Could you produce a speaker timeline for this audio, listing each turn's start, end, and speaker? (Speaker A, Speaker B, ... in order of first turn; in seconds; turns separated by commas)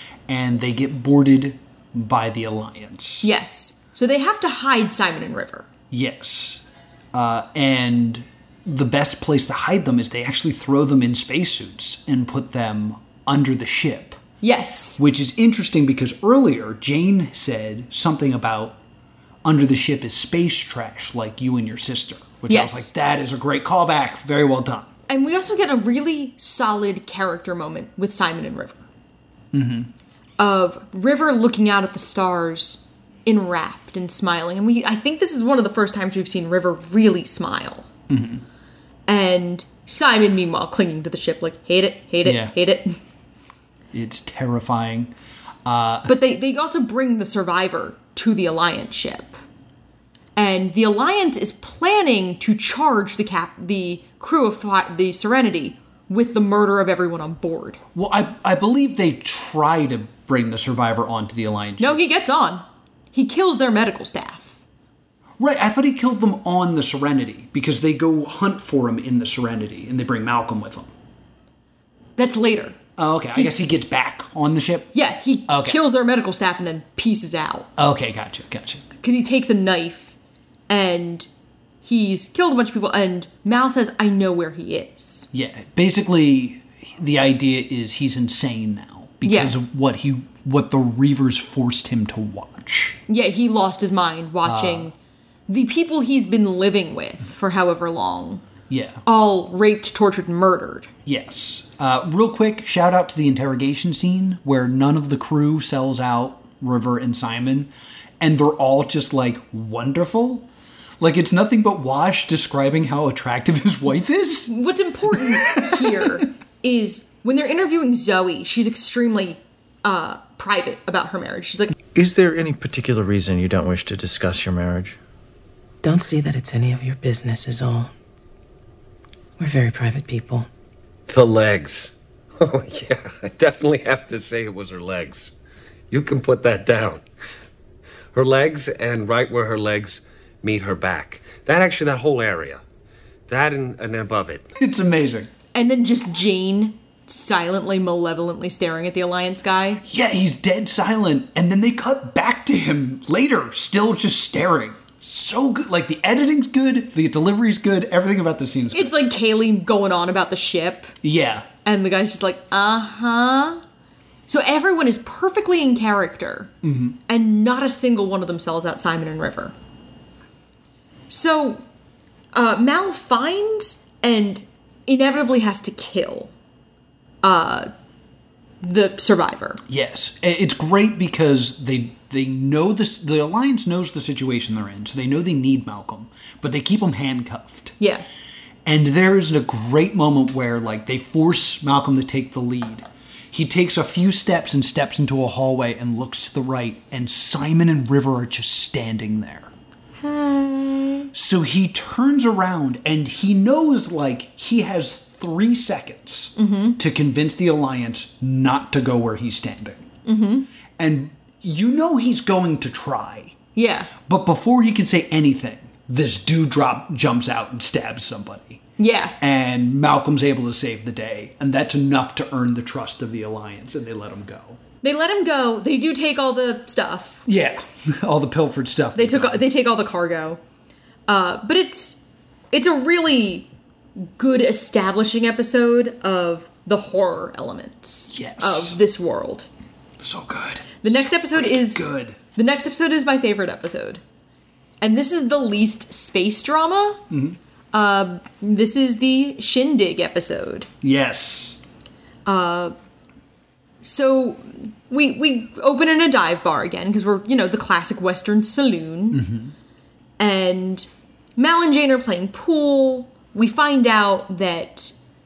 Speaker A: 0.3-3.3, Speaker B: 3.2-5.7, Speaker A: 5.9-14.2, Speaker B: 14.4-15.0, Speaker A: 15.0-18.8, Speaker A: 19.4-24.9, Speaker B: 22.5-22.9, Speaker B: 25.1-28.9, Speaker A: 29.5-29.9, Speaker B: 30.4-37.9, Speaker A: 38.1-38.4, Speaker B: 39.1-43.0, Speaker A: 42.2-42.5, Speaker A: 43.9-45.1, Speaker A: 45.6-46.1, Speaker B: 46.0-49.4, Speaker B: 50.4-57.8, Speaker A: 57.9-62.0, Speaker B: 61.8-64.6, Speaker A: 65.4-70.9, Speaker B: 72.2-72.8, Speaker A: 73.0-74.9, Speaker B: 74.9-77.7, Speaker A: 75.5-75.8, Speaker A: 77.8-78.8, Speaker B: 79.0-80.2, Speaker B: 80.7-81.3, Speaker B: 81.8-85.3, Speaker A: 85.3-93.0, Speaker B: 89.2-89.6, Speaker B: 93.1-94.9, Speaker A: 94.4-94.9, Speaker B: 95.5-98.4, Speaker A: 98.7-99.0, Speaker B: 99.0-100.9, Speaker A: 101.0-110.5, Speaker A: 111.0-114.5, Speaker B: 114.5-121.7, Speaker A: 115.1-116.2, Speaker C: 121.9-125.0, Speaker D: 125.8-127.9, Speaker D: 129.4-130.5, Speaker E: 131.1-135.3, Speaker E: 135.9-137.0, Speaker E: 138.1-142.6, Speaker E: 143.3-144.4, Speaker A: 144.6-145.3, Speaker B: 145.5-149.8, Speaker A: 149.8-158.9, Speaker B: 158.7-160.9, Speaker A: 161.0-161.5, Speaker B: 161.6-163.6, Speaker B: 164.3-166.5, Speaker A: 166.6-167.0, Speaker B: 167.1-169.5, Speaker B: 171.1-171.6, Speaker B: 172.3-176.3, Speaker B: 177.2-177.7, Speaker B: 178.6-179.6, Speaker A: 179.7-187.8, Speaker B: 187.8-188.0, Speaker A: 188.6-199.5, Speaker B: 200.0-201.1, Speaker A: 201.1-209.9, Speaker B: 206.3-206.8, Speaker B: 210.0-210.5, Speaker A: 210.8-213.3, Speaker B: 213.6-213.9, Speaker A: 214.1-218.6, Speaker B: 218.8-219.2, Speaker A: 219.2-224.6, Speaker B: 224.8-227.2, Speaker A: 227.2-229.4, Speaker B: 228.9-230.4, Speaker B: 231.1-232.0, Speaker B: 232.5-233.5, Speaker B: 234.0-239.5, Speaker A: 238.1-238.8, Speaker A: 240.0-242.2, Speaker B: 240.8-241.8, Speaker B: 242.3-244.0, Speaker B: 244.8-247.0, Speaker A: 247.1-247.4, Speaker B: 247.7-250.7, Speaker A: 250.8-251.6, Speaker B: 252.2-252.7, Speaker B: 253.8-259.2, Speaker A: 259.1-259.5, Speaker B: 260.2-264.9